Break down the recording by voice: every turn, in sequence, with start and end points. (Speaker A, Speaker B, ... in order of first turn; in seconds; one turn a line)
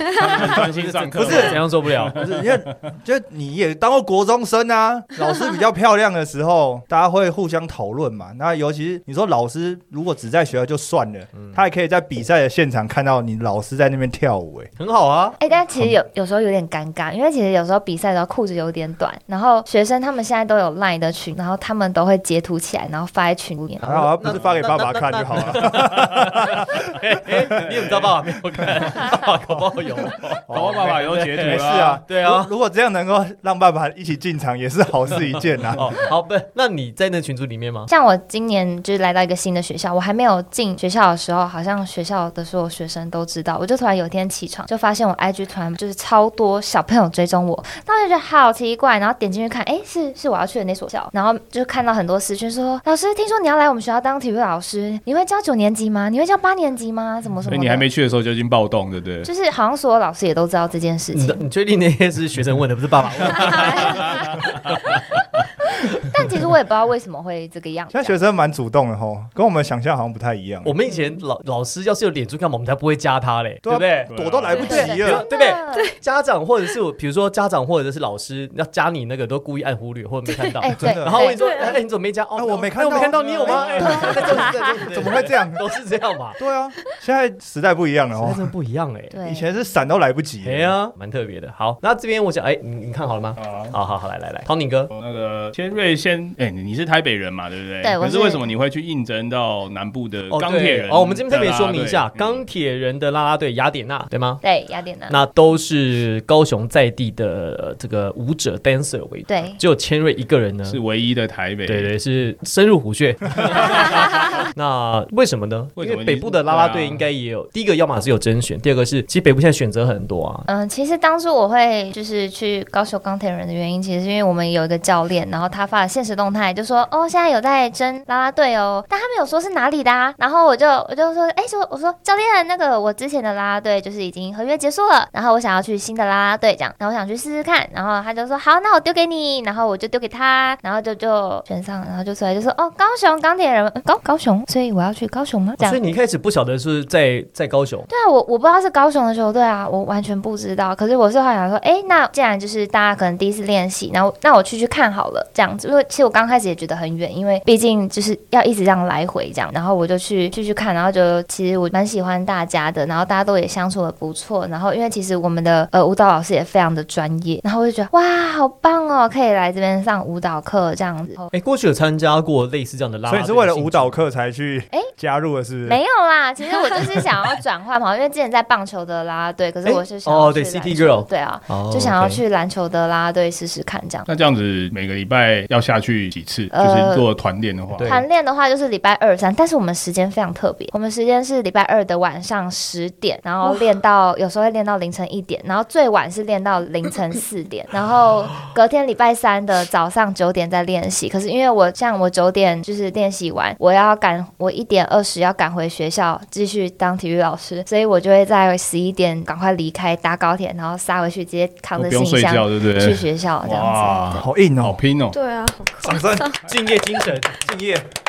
Speaker A: 0.1-2.5
Speaker B: 0.3-2.2
Speaker C: 1.2-1.6
Speaker C: 2.1-14.7
Speaker B: 11.3-11.6
Speaker B: 14.8-15.4
Speaker D: 15.4-24.0
Speaker B: 23.8-32.5
Speaker C: 23.8-26.7
Speaker A: 25.4-25.6
Speaker A: 30.5-32.0
Speaker C: 31.4-36.0
Speaker B: 35.7-37.9
Speaker D: 37.9-57.9
Speaker A: 57.5-59.3
Speaker D: 59.2-61.4
Speaker B: 61.1-65.0
Speaker A: 63.6-64.8
Speaker D: 63.6-64.2
Speaker D: 66.0-68.2
Speaker C: 67.9-70.7
Speaker B: 70.6-86.4
Speaker E: 70.9-71.1
Speaker C: 73.6-75.2
Speaker A: 74.1-74.8
Speaker D: 74.5-75.9
Speaker E: 75.7-76.0
Speaker D: 80.6-81.4
Speaker C: 80.8-81.3
Speaker E: 81.2-81.8
Speaker C: 82.3-85.6
Speaker A: 83.0-84.3
Speaker C: 86.4-88.5
Speaker B: 88.1-89.2
Speaker D: 89.1-89.5
Speaker C: 89.2-90.7
Speaker B: 90.4-94.9
Speaker A: 93.4-93.8
Speaker A: 94.9-102.4
Speaker D: 97.8-98.5
Speaker B: 100.3-104.4
Speaker D: 104.4-105.2
Speaker B: 105.1-110.8
Speaker D: 109.3-109.6
Speaker A: 110.6-111.9
Speaker B: 111.6-120.5
Speaker A: 115.8-117.0
Speaker D: 120.5-145.8
Speaker B: 145.6-147.9
Speaker D: 147.9-171.3
Speaker B: 171.3-174.0
Speaker C: 173.1-175.8
Speaker D: 175.6-184.1
Speaker B: 179.6-182.2
Speaker A: 184.1-187.9
Speaker D: 186.5-187.1
Speaker B: 187.7-188.1
Speaker D: 187.8-214.2
Speaker A: 211.7-215.2
Speaker C: 214.1-214.8
Speaker E: 215.1-216.4
Speaker C: 215.8-216.3
Speaker B: 216.4-217.4
Speaker C: 217.3-217.8